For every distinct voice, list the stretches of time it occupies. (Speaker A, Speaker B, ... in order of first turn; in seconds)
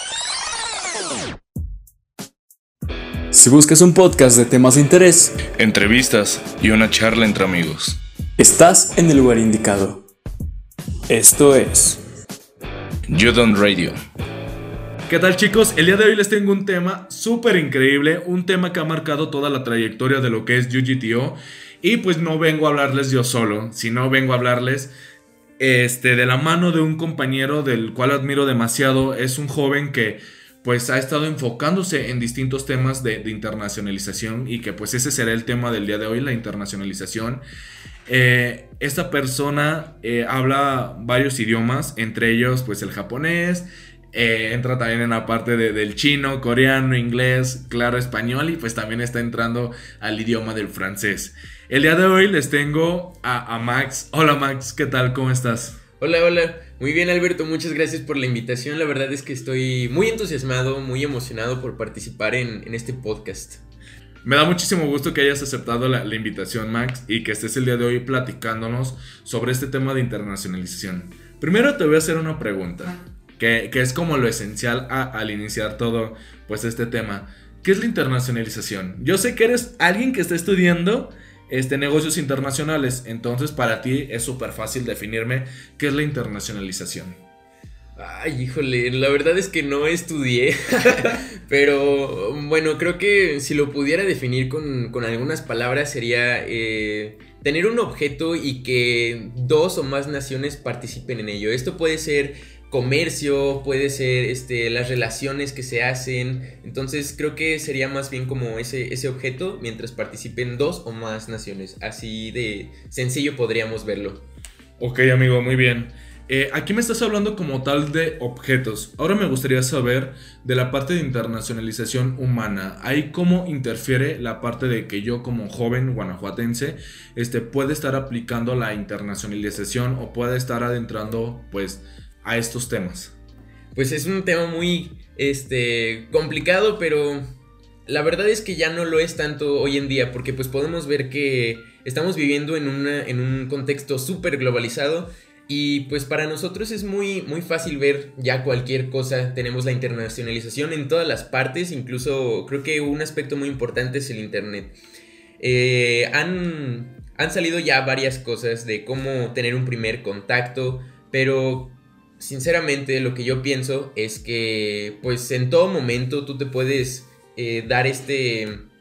Speaker A: 3.3-5.5, 8.4-10.0, 11.1-12.0
Speaker B: 5.5-8.0, 13.1-13.9, 15.1-24.9, 25.6-37.4, 38.1-55.8, 64.2-87.2, 114.8-133.1
Speaker C: 56.0-63.6, 88.0-114.3, 133.8-137.2, 137.9-154.8, 155.4-168.7